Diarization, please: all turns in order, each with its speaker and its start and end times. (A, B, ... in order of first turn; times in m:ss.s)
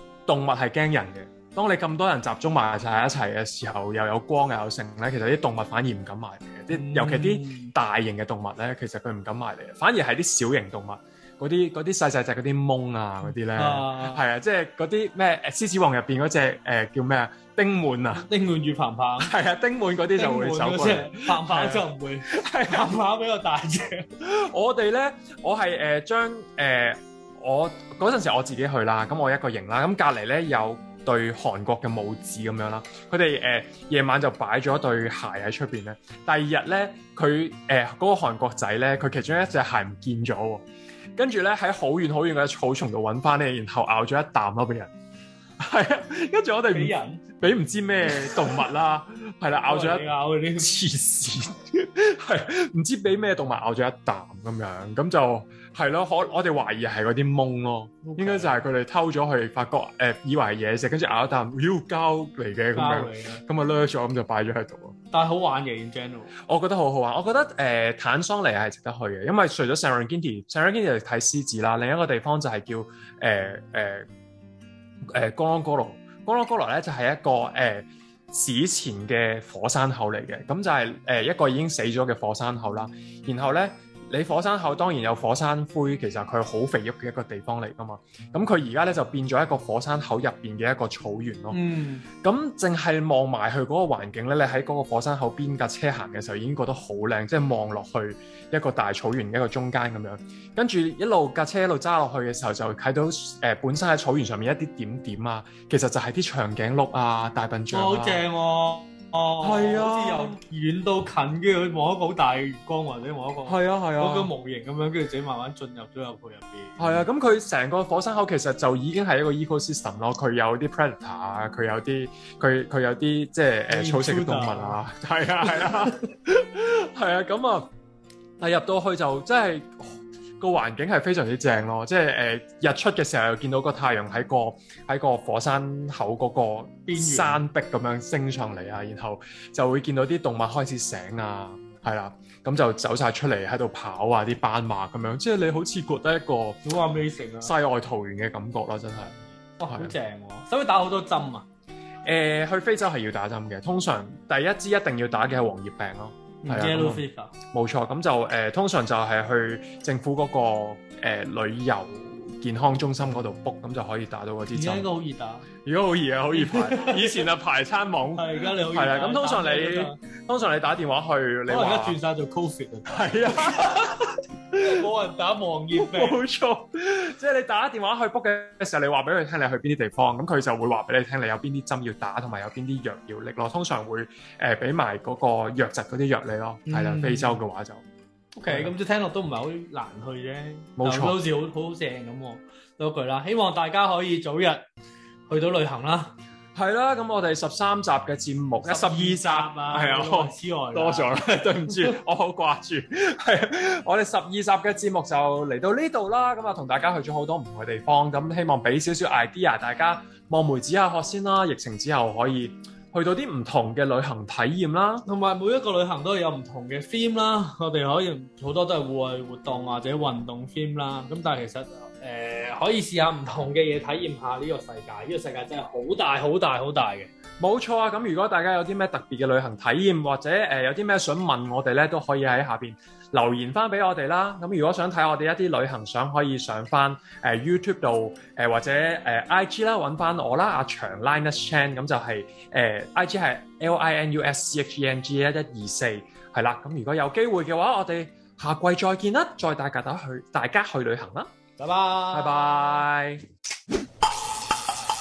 0:00.3-0:18.3 A
0:06.7-0:07.7 B
0:13.2-0:14.2 B
0:18.1-0:19.3 B
0:19.2-0:23.0 A
0:20.1-0:24.1 B
0:24.2-0:40.6 A
0:41.2-0:44.9 A
0:45.6-1:04.9 A
0:46.7-0:47.2 B
0:48.1-0:48.6 B
0:49.5-0:50.7 B
0:58.0-0:58.6 B
1:02.7-1:03.4 B
1:05.1-1:06.3 B
1:06.4-1:14.0 A
1:15.1-1:31.6 A
1:31.5-1:32.0 B
1:32.2-1:48.2 A
1:47.7-1:57.1 B
1:49.4-1:50.4 A
1:53.4-1:54.3 A
1:56.8-2:07.7 A
2:03.7-2:04.8 B
2:05.6-2:05.9 B
2:08.4-2:26.6 A
2:16.8-2:17.4 B
2:26.6-2:27.5 B
2:27.4-2:29.1 A
2:29.1-2:31.5 B
2:29.7-2:29.9 A
2:32.0-2:44.9 A
2:36.4-2:37.3 B
2:44.5-2:45.5 B
2:45.6-2:52.0 A
2:46.3-2:47.3 B
2:48.1-2:50.0 B
2:51.5-2:54.0 B
2:52.9-2:54.0 A
2:54.6-2:54.9 A
2:54.6-2:56.2 B
2:55.7-3:07.8 A
3:06.7-3:07.4 B
3:08.3-3:14.7 B
3:08.5-3:08.7 A
3:10.8-3:11.2 A
3:15.3-3:16.1 B
3:16.6-3:35.0 A
3:18.6-3:22.0 B
3:35.0-3:47.1 B
3:47.4-4:11.3 A
4:11.6-4:12.5 B
4:12.1-4:13.2 A